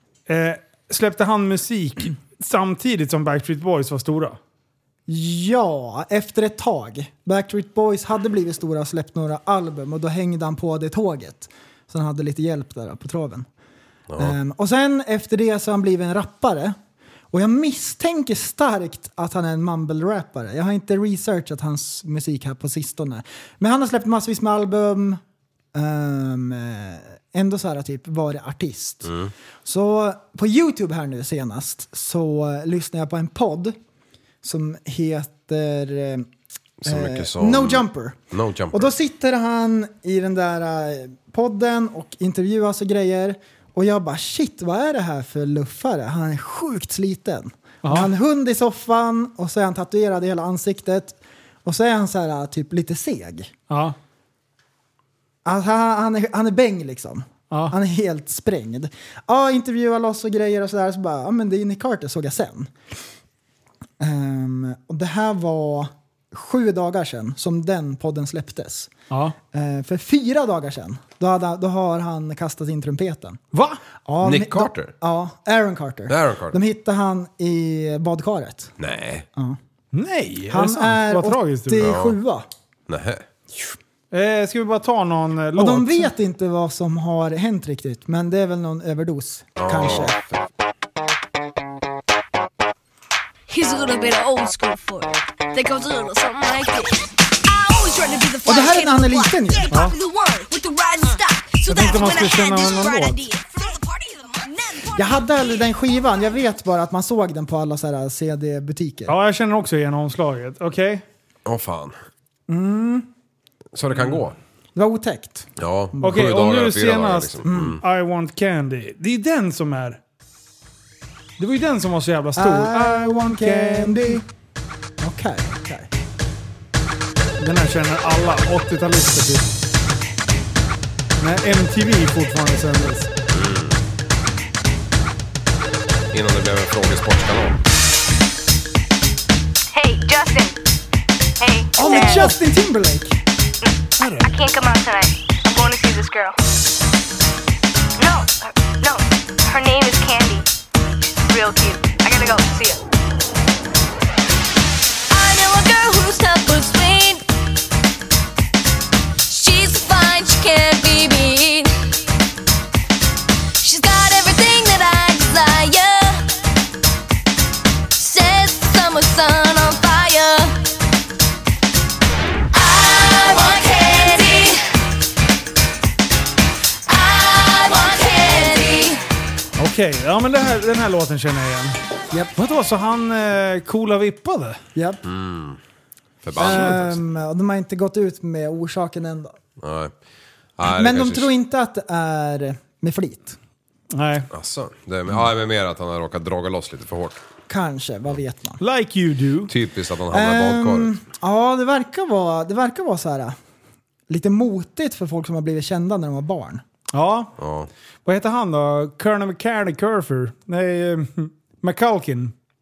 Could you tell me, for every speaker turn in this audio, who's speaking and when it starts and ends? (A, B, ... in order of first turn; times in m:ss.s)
0:00.3-0:04.4 A
0:05.1-0:13.5 B
0:14.1-0:14.4 C
0:14.2-0:16.8 B
0:17.3-0:25.2 B
0:25.7-0:29.1 B
0:29.1-0:29.3 C
0:29.6-0:33.8 B
0:34.4-0:36.3 B
0:36.8-0:38.9 C
0:36.9-0:53.5 B
0:47.8-0:48.1 A
0:53.7-0:54.0 A
0:55.4-1:02.7 B
1:04.0-1:08.9 B
1:09.5-1:13.4 B
1:13.5-1:13.8 A
1:14.0-1:18.7 B
1:14.2-1:14.9 C
1:16.1-1:16.6 C
1:18.8-1:19.2 C
1:19.9-1:21.9 A
1:20.5-1:22.5 B
1:21.8-1:22.2 C
1:22.9-1:23.2 C
1:24.1-1:26.1 A
1:25.6-1:30.2 B
1:29.6-1:30.2 C
1:33.5-1:45.1 D
1:38.5-1:39.7 B
1:41.7-1:43.2 A
1:44.9-1:49.2 B
1:49.1-1:51.0 A
1:51.4-1:52.0 C
1:52.5-1:53.1 B
1:53.7-1:54.4 C
1:54.8-1:56.3 B
1:55.6-1:57.8 C
1:56.0-2:00.0 A
1:57.4-1:57.8 B
2:01.4-2:04.2 A
2:02.4-2:04.2 B
2:05.0-2:05.9 B
2:07.4-2:09.5 A
2:11.2-2:13.1 A
2:13.3-2:13.8 C
2:16.1-2:17.6 C
2:19.7-2:20.6 D
2:21.4-2:22.4 D
2:21.8-2:23.2 B
2:21.9-2:22.3 A
2:24.0-2:24.3 A
2:24.2-2:26.4 D
2:28.0-2:30.5 D
2:31.3-2:32.8 D
2:35.1-2:37.2 D
2:39.3-2:41.9 D
2:43.6-2:46.3 D
2:48.0-2:50.6 D
2:52.5-2:54.6 D
2:56.9-2:59.0 D
2:59.6-3:01.8 A
3:02.4-3:04.6 A
3:04.8-3:05.0 B
3:05.0-3:05.6 C
3:06.2-3:07.0 C
3:06.4-3:09.3 B
3:09.6-3:09.9 C
3:10.6-3:11.3 C
3:10.6-3:13.4 B
3:13.9-3:14.3 A
3:14.3-3:17.2 C
3:17.5-3:18.6 B
3:18.6-3:19.5 A
3:19.5-3:20.9 C
3:20.1-3:23.4 B
3:24.1-3:26.6 B
3:26.9-3:27.3 A
3:27.4-3:27.7 C
3:28.0-3:32.3 A